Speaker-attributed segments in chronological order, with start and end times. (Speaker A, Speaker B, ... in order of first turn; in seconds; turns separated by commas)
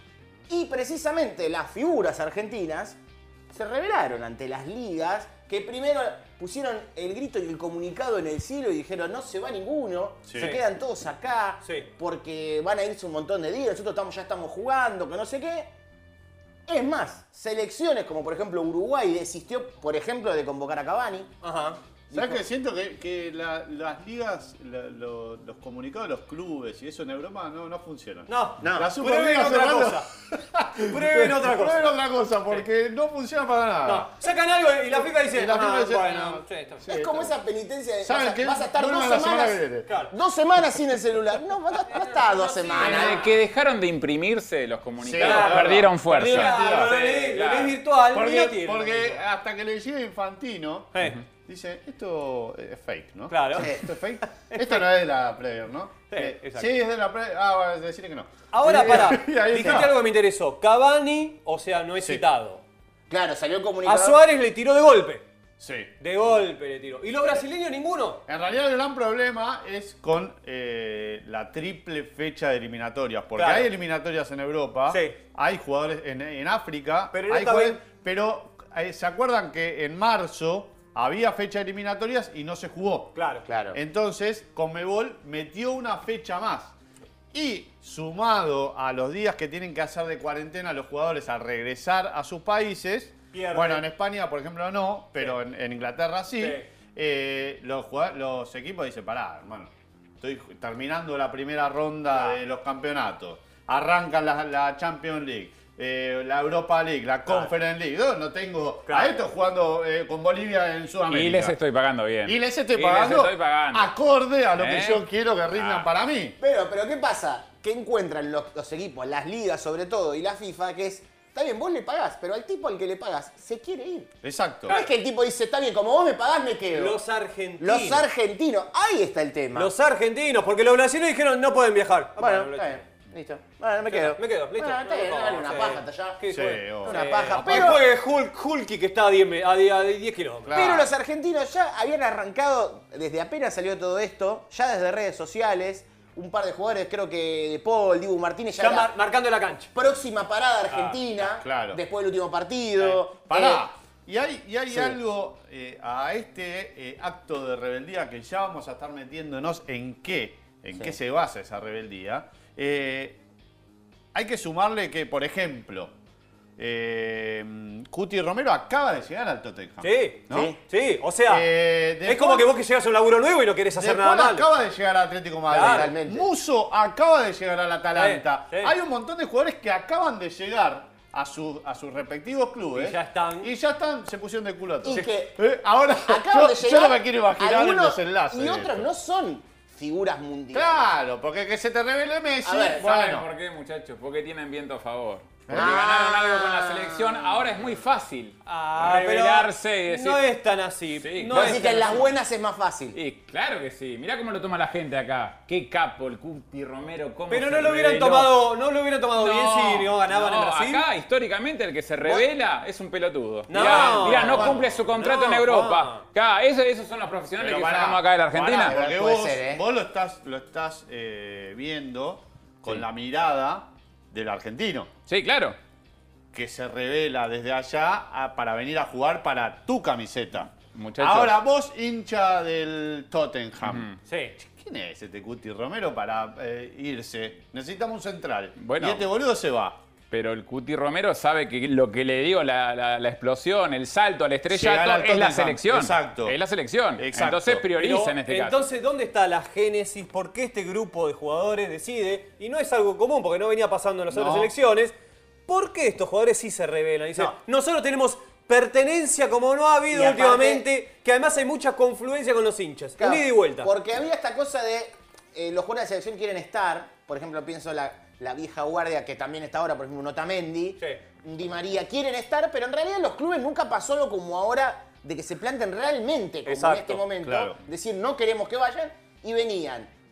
Speaker A: 0.5-3.0, Speaker A: 3.5-15.7, Speaker B: 10.3-10.6, Speaker C: 10.4-10.6, Speaker A: 16.7-21.3, Speaker C: 21.4-21.8, Speaker A: 22.1-22.4, Speaker B: 22.1-34.1, Speaker C: 28.3-30.1, Speaker A: 28.6-28.9, Speaker C: 30.9-31.9, Speaker C: 33.9-37.0, Speaker B: 35.0-37.3, Speaker A: 36.9-43.3, Speaker B: 38.0-39.9, Speaker C: 39.9-40.1, Speaker C: 41.9-43.3, Speaker D: 42.8-47.8, Speaker B: 45.0-47.0, Speaker C: 45.2-49.2, Speaker B: 48.1-60.0, Speaker C: 50.9-51.2, Speaker C: 53.3-53.7, Speaker A: 53.6-53.9, Speaker C: 54.5-54.8, Speaker C: 56.1-56.7, Speaker C: 58.5-62.6, Speaker A: 59.5-59.8, Speaker B: 62.0-62.2, Speaker A: 63.1-64.2, Speaker C: 63.9-65.2, Speaker B: 65.6-65.9, Speaker C: 66.0-68.2, Speaker B: 68.3-83.1, Speaker C: 73.4-73.7, Speaker C: 74.9-75.2, Speaker C: 77.1-77.8, Speaker C: 83.2-83.5, Speaker A: 83.5-83.8, Speaker B: 83.7-86.7, Speaker B: 87.3-111.5, Speaker C: 93.3-93.8, Speaker C: 96.4-96.7, Speaker C: 108.9-109.2, Speaker D: 111.1-113.9, Speaker B: 112.2-116.4, Speaker D: 114.6-115.9, Speaker A: 116.4-124.1, Speaker B: 124.2-124.8, Speaker A: 124.7-127.0, Speaker C: 126.7-128.1, Speaker A: 127.6-129.7, Speaker C: 129.5-132.8, Speaker A: 132.2-136.2, Speaker C: 133.9-140.6, Speaker B: 136.3-137.1, Speaker A: 136.8-137.8, Speaker B: 140.4-140.9, Speaker A: 140.5-148.9, Speaker C: 148.6-149.7, Speaker A: 149.8-153.7, Speaker C: 150.7-151.0, Speaker B: 151.3-151.8, Speaker B: 153.3-163.2, Speaker A: 154.7-155.0, Speaker B: 164.1-165.9, Speaker B: 166.6-170.5, Speaker C: 169.8-171.5, Speaker A: 170.3-170.6, Speaker B: 171.3-172.5, Speaker C: 172.0-174.5, Speaker B: 173.8-188.9, Speaker C: 175.5-175.9, Speaker A: 175.6-176.3, Speaker C: 178.0-178.7, Speaker C: 182.7-183.5, Speaker A: 184.8-185.4, Speaker A: 186.1-190.8, Speaker B: 190.5-193.3, Speaker A: 192.4-192.8, Speaker D: 192.8-200.2, Speaker B: 195.5-195.8, Speaker A: 195.5-197.7, Speaker C: 198.5-202.1, Speaker D: 200.9-202.0, Speaker A: 201.3-203.0, Speaker D: 202.9-208.4, Speaker C: 207.3-210.8, Speaker D: 209.2-218.7, Speaker C: 213.5-216.0, Speaker B: 213.5-214.8, Speaker B: 217.4-224.9, Speaker A: 218.7-219.6, Speaker D: 225.1-225.6, Speaker B: 226.3-233.9, Speaker D: 230.7-231.4, Speaker D: 233.6-234.0, Speaker C: 234.1-234.3, Speaker B: 234.4-239.8, Speaker D: 238.6-239.0, Speaker D: 240.1-248.6, Speaker B: 244.5-246.4, Speaker B: 247.0-247.7, Speaker C: 247.8-254.9, Speaker B: 254.1-254.5, Speaker C: 255.5-263.7, Speaker A: 259.9-260.7, Speaker A: 263.0-279.9, Speaker C: 276.5-277.0, Speaker B: 277.2-277.6